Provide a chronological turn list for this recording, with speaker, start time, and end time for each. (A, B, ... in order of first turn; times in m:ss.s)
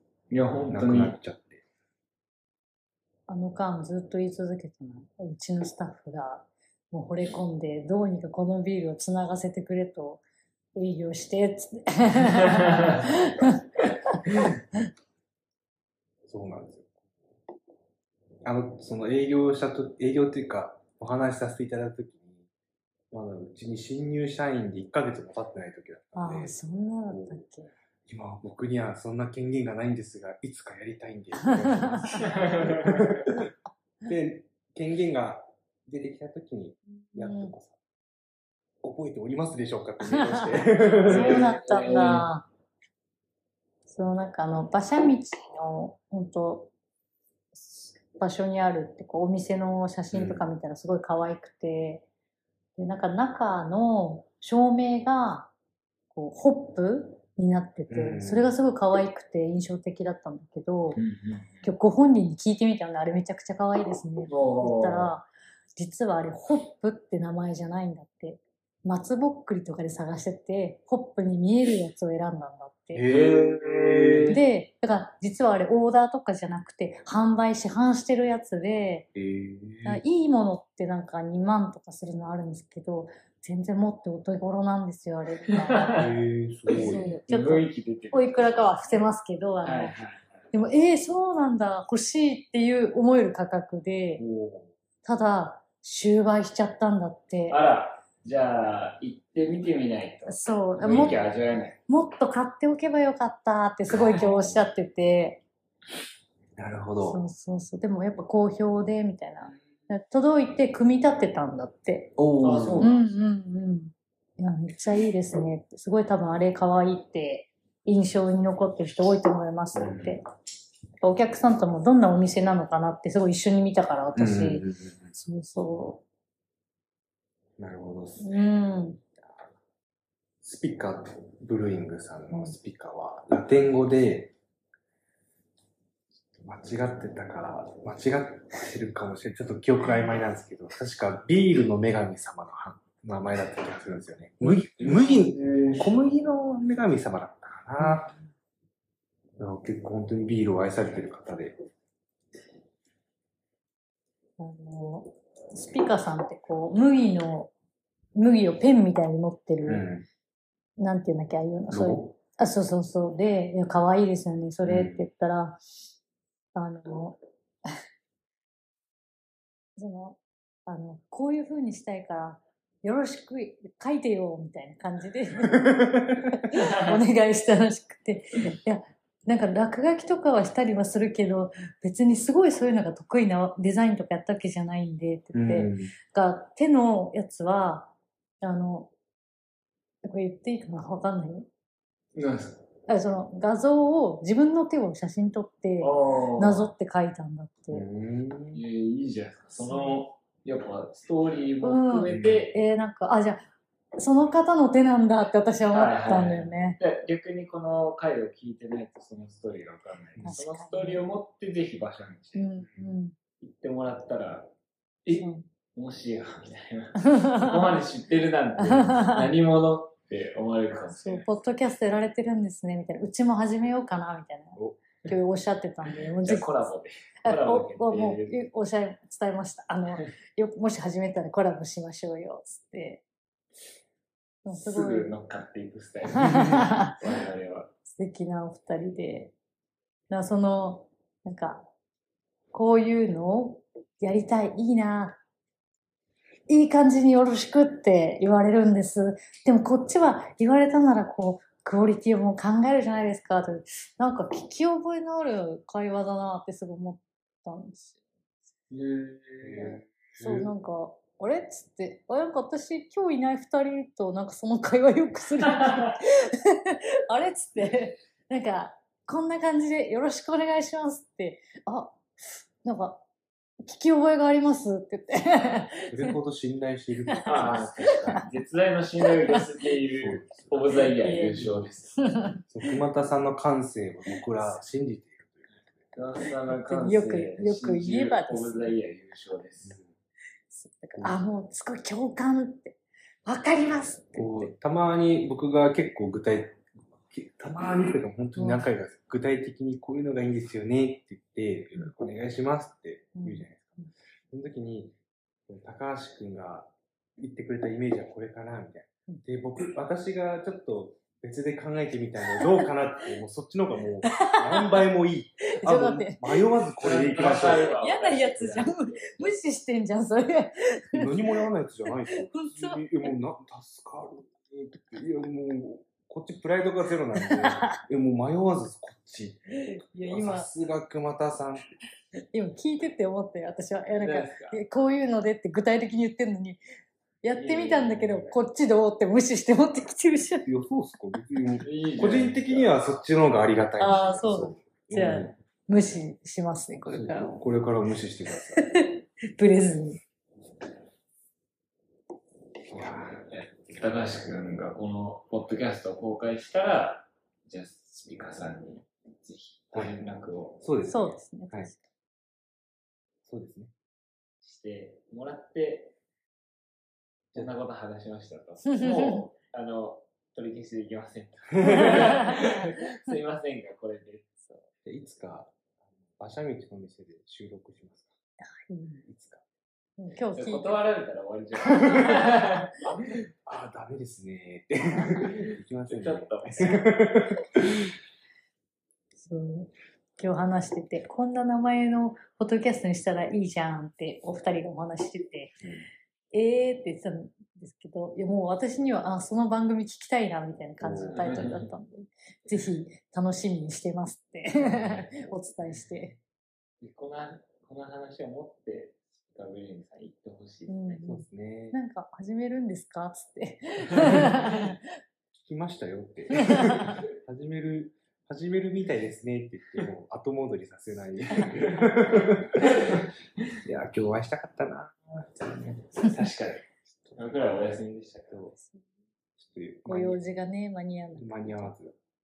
0:00.3-0:01.2 A
0:00.7-0:01.6 B
0:03.3-0:10.2 C
0:10.8-0:14.2 C
0:13.1-0:13.5 B
0:16.3-0:16.9 B
0:18.4-0:22.5 B
0:23.1-0:27.4 B
0:26.2-0:27.7 C
0:28.1-0:33.5 B
0:31.5-0:32.3 C
0:32.1-0:33.1 A
0:34.0-0:37.8 B
0:37.1-0:37.6 C
0:38.8-0:41.5 B
0:40.0-0:42.5 C
0:41.0-0:42.3 A
0:43.9-0:46.7 C
0:47.5-0:52.0 C
0:50.1-0:50.5 B
0:52.8-0:55.5 C
0:56.1-1:01.0 C
0:57.9-0:58.5 B
1:01.0-1:01.7 A
1:01.6-1:13.0 C
1:04.2-1:05.1 A
1:12.9-1:14.4 B
1:13.0-1:14.4 A
1:14.3-1:19.1 C
1:19.2-1:20.0 B
1:19.8-1:26.0 C
1:25.6-1:26.1 A
1:26.0-1:27.1 B
1:26.7-1:30.0 C
1:26.7-1:29.0 A
1:29.6-1:30.2 A
1:30.5-1:34.2 C
1:34.2-1:34.6 B
1:35.0-1:37.6 C
1:37.5-1:41.8 A
1:40.3-1:41.3 C
1:40.9-1:41.1 B
1:41.9-1:45.4 C
1:46.6-1:47.2 B
1:47.0-1:52.2 C
1:52.2-1:52.9 B
1:52.4-1:53.0 A
1:52.8-2:00.2 C
1:59.8-2:00.2 B
2:01.0-2:06.0 C
2:04.2-2:05.0 B
2:07.6-2:08.5 B
2:08.2-2:09.0 C
2:09.0-2:09.4 B
2:10.4-2:14.3 B
2:16.4-2:28.1 B
2:24.4-2:26.0 A
2:29.4-2:31.6 B
2:34.4-2:37.5 C
2:38.2-2:39.9 C
2:39.7-2:40.1 B
2:40.8-2:45.6 C
2:41.7-2:42.1 B
2:44.6-2:45.0 B
2:46.6-2:47.2 C
2:49.8-3:08.9 C
2:55.5-2:56.4 B
3:05.3-3:05.9 B
3:10.0-3:11.5 C
3:12.2-3:12.7 A
3:12.9-3:17.8 C
3:15.8-3:16.7 A
3:17.7-3:18.6 B
3:18.5-3:22.5 A
3:19.6-3:20.0 C
3:21.6-3:26.8 C
3:22.1-3:22.5 B
3:25.7-3:32.5 A
3:30.2-3:31.0 C
3:32.4-3:33.2 C
3:33.4-3:34.5 A
3:35.0-3:41.3 A
3:35.1-3:35.5 C
3:37.0-3:37.6 C
3:38.6-3:39.3 C
3:41.0-3:46.7 C
3:46.2-3:48.4 A
3:47.2-3:53.0 C
3:54.4-3:55.1 C
3:54.6-3:57.7 A
3:56.2-3:57.0 C
3:57.9-3:59.3 C
4:00.1-4:01.7 C
4:02.5-4:05.2 C
4:06.5-4:18.0 C
4:18.7-4:19.7 A
4:19.4-4:20.5 B
4:19.6-4:33.0 C
4:33.6-4:36.1 C
4:35.9-4:38.2 B
4:37.1-4:38.2 C
4:37.3-4:42.0 A
4:40.0-4:40.7 B
4:41.0-4:42.4 C
4:41.4-4:41.7 B
4:42.5-4:45.8 B
4:46.0-4:49.8 A
4:46.7-4:48.7 C
4:50.5-4:54.5 C
4:54.2-5:05.0 B
4:58.4-4:58.6 C
5:03.2-5:03.9 C
5:05.5-5:17.8 B
5:12.4-5:12.6 C
5:14.0-5:14.9 C
5:15.6-5:16.4 C
5:16.8-5:19.3 A
5:17.4-5:21.4 C
5:20.9-5:31.7 B
5:22.1-5:22.8 C
5:27.3-5:27.8 C
5:29.5-5:30.5 C
5:32.3-5:36.6 C
5:34.0-5:34.6 A
5:37.2-5:40.5 C
5:37.3-5:38.4 A
5:40.5-5:45.4 B
5:41.6-5:42.8 A
5:43.8-5:47.4 C
5:46.9-5:48.7 B
5:48.6-5:50.0 C
5:52.7-5:53.3 B
5:53.3-6:00.6 A
6:00.6-6:01.7 B
6:00.9-6:01.8 C
6:03.2-6:03.7 B
6:04.4-6:06.0 A
6:07.4-6:14.5 A
6:08.7-6:09.2 C
6:11.6-6:12.6 C
6:14.8-6:15.6 B
6:16.2-6:18.1 B
6:18.6-6:19.0 C
6:19.0-6:19.4 B
6:20.0-6:20.9 C
6:20.4-6:23.3 A
6:21.7-6:22.4 C
6:23.5-6:27.8 B
6:25.9-6:26.9 A
6:29.2-6:35.6 C
6:36.3-6:46.2 C
6:40.8-6:41.5 B
6:41.0-6:41.7 A
6:44.8-6:45.1 B
6:46.8-6:51.0 A
6:50.7-6:54.8 C
6:51.0-6:51.8 B
6:55.3-7:02.9 B
6:56.5-6:56.9 C
7:03.6-7:05.8 B
7:05.9-7:08.5 A
7:07.0-7:07.5 B
7:08.3-7:08.6 B
7:09.4-7:10.2 B
7:09.9-7:11.7 C
7:11.2-7:12.0 B